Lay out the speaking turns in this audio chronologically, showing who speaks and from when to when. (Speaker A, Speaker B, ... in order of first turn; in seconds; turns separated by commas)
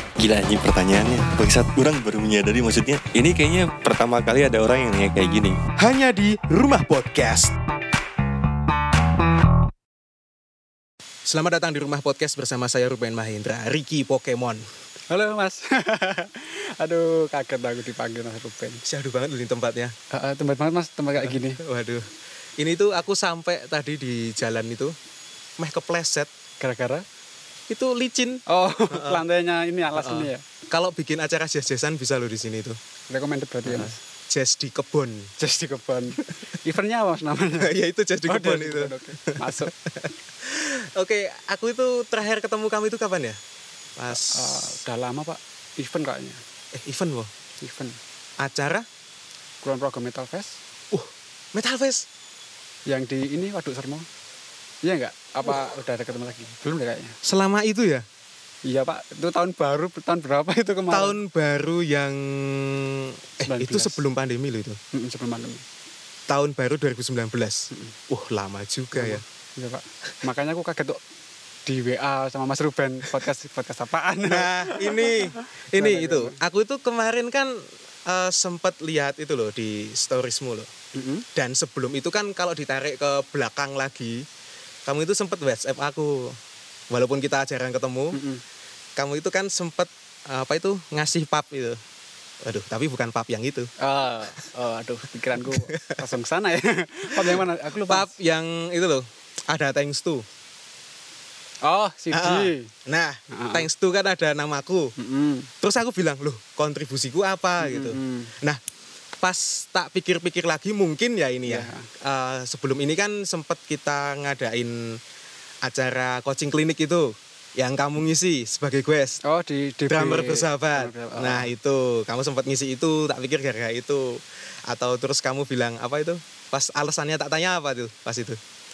Speaker A: 0.2-5.6, Speaker B: 5.8-7.5, Speaker B: 11.2-14.7, Speaker C: 15.1-18.8, Speaker B: 18.8-19.9, Speaker C: 20.1-21.6, Speaker B: 21.2-24.9, Speaker B: 25.6-26.3, Speaker C: 26.6-27.0, Speaker B: 27.7-29.2, Speaker C: 28.5-30.4, Speaker B: 29.9-32.8, Speaker C: 33.1-34.0, Speaker B: 33.6-35.3, Speaker C: 35.4-37.7, Speaker B: 37.5-43.4, Speaker C: 38.3-39.7, Speaker B: 44.0-44.8, Speaker C: 44.1-46.4, Speaker B: 46.7-47.3, Speaker C: 47.6-48.0, Speaker B: 48.4-48.9, Speaker C: 49.6-50.6, Speaker B: 50.9-52.0, Speaker C: 52.9-54.0, Speaker C: 54.8-57.1, Speaker B: 57.2-58.0, Speaker C: 58.7-61.2, Speaker B: 60.9-64.8, Speaker C: 63.4-64.0, Speaker C: 64.9-65.6, Speaker B: 66.3-69.2, Speaker C: 68.9-71.0, Speaker C: 71.7-76.4, Speaker B: 74.3-80.7, Speaker C: 80.9-81.2, Speaker B: 81.3-84.2, Speaker B: 84.8-86.4, Speaker B: 86.9-88.2, Speaker C: 88.1-88.4, Speaker B: 89.0-91.8, Speaker B: 92.4-93.7, Speaker C: 93.8-98.1, Speaker B: 95.3-96.1, Speaker B: 97.1-100.2, Speaker C: 101.6-102.7, Speaker B: 102.1-104.9, Speaker C: 103.3-103.7, Speaker C: 105.0-105.5, Speaker B: 105.6-108.6, Speaker C: 107.6-108.3, Speaker B: 109.2-115.0, Speaker C: 111.5-111.9, Speaker B: 115.6-119.2, Speaker C: 119.2-121.5, Speaker B: 119.9-128.4